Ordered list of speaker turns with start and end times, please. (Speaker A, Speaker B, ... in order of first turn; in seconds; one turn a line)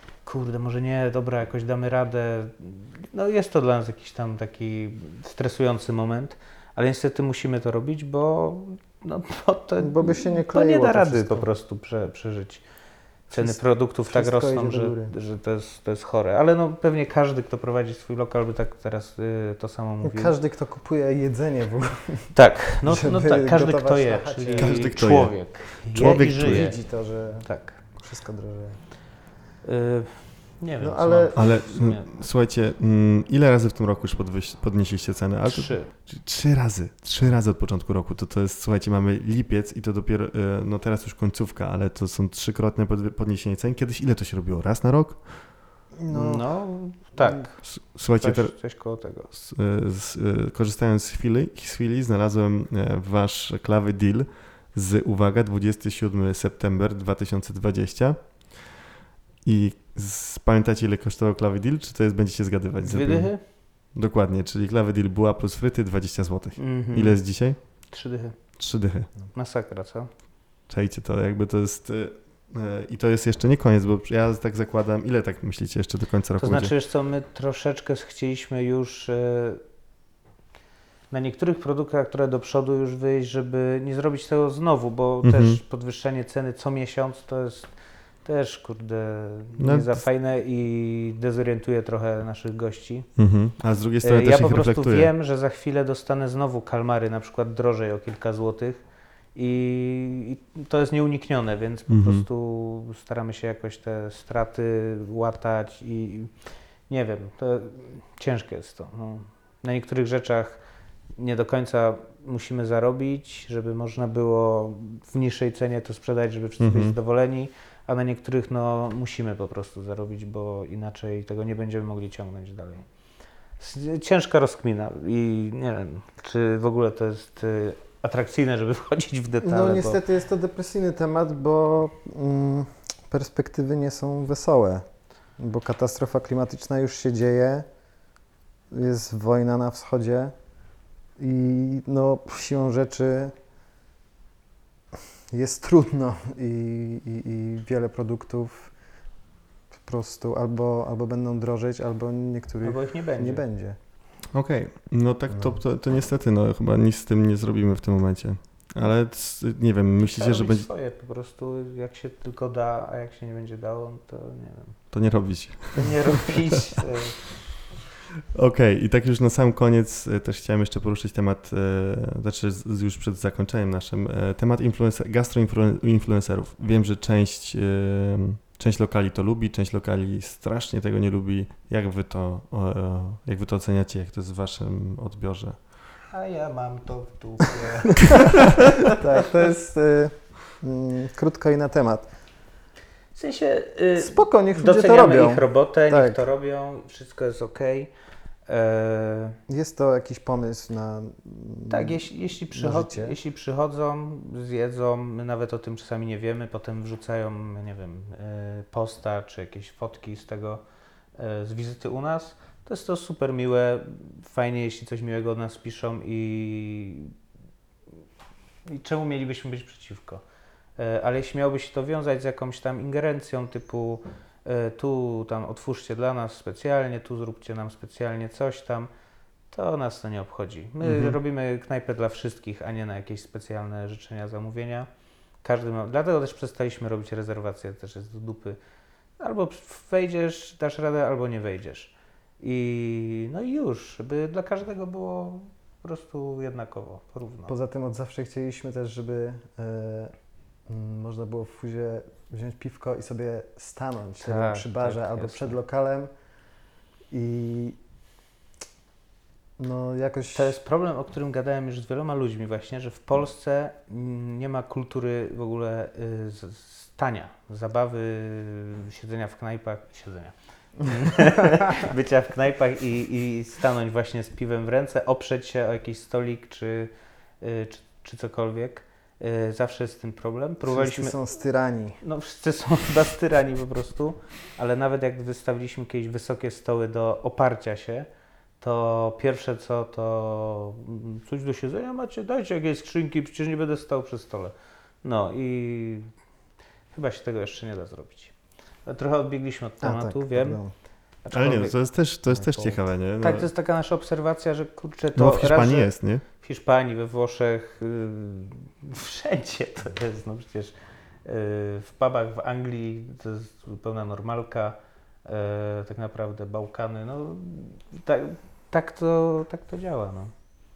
Speaker A: 0.2-12.6
Speaker B: 9.8-11.5
Speaker A: 13.3-20.3
Speaker B: 13.3-15.1
Speaker B: 20.0-24.9
Speaker A: 22.4-26.8
Speaker C: 24.5-26.7
Speaker B: 26.3-28.8
Speaker A: 27.4-27.8
Speaker A: 29.6-32.1
Speaker B: 30.8-31.5
Speaker C: 31.4-45.5
Speaker A: 35.5-35.9
Speaker B: 46.0-46.5
Speaker A: 46.1-49.3
Speaker C: 47.6-58.7
Speaker C: 59.4-67.9
Speaker A: 62.8-63.4
Speaker A: 66.6-68.6
Speaker C: 68.6-69.1
Speaker A: 69.3-70.1
Speaker C: 70.7-76.7
Speaker A: 76.4-79.6
Speaker A: 81.1-87.7
Speaker C: 85.2-85.6
Speaker A: 88.2-93.1
Speaker C: 89.6-90.0
Speaker C: 93.2-95.1
Speaker A: 94.0-98.8
Speaker A: 99.3-106.3
Speaker C: 101.9-102.3
Speaker A: 106.9-110.6
Speaker A: 111.2-122.9
Speaker C: 116.6-117.0
Speaker A: 123.6-130.0
Speaker B: 129.4-137.7
Speaker B: 138.7-140.3
Speaker B: 141.2-143.3
Speaker B: 145.3-148.7
Speaker B: 149.8-153.8
Speaker A: 152.6-153.4
Speaker C: 154.3-160.7
Speaker B: 155.3-155.6
Speaker A: 160.0-164.8
Speaker C: 164.9-166.3
Speaker A: 165.8-167.2
Speaker C: 168.3-185.6
Speaker A: 186.1-189.0
Speaker B: 189.0-192.1
Speaker A: 193.2-197.9
Speaker B: 194.0-196.2
Speaker A: 198.5-199.4
Speaker B: 199.5-203.2
Speaker A: 201.7-210.6
Speaker A: 211.2-217.1
Speaker A: 218.7-220.2
Speaker A: 220.8-228.9
Speaker A: 229.5-234.9
Speaker C: 230.8-231.2
Speaker A: 235.4-238.6
Speaker A: 239.2-247.5
Speaker B: 247.5-250.1
Speaker B: 250.7-256.1
Speaker A: 254.2-255.6
Speaker B: 257.1-257.8
Speaker B: 259.6-260.6
Speaker A: 260.4-281.2
Speaker B: 280.6-282.0
Speaker A: 282.0-288.1
Speaker A: 288.6-296.1
Speaker A: 296.9-298.3
Speaker A: 298.9-300.6
Speaker B: 299.8-300.7
Speaker A: 301.2-301.8
Speaker C: 301.3-303.5
Speaker B: 302.3-302.8
Speaker A: 303.2-310.7
Speaker C: 305.2-306.2
Speaker A: 311.2-320.3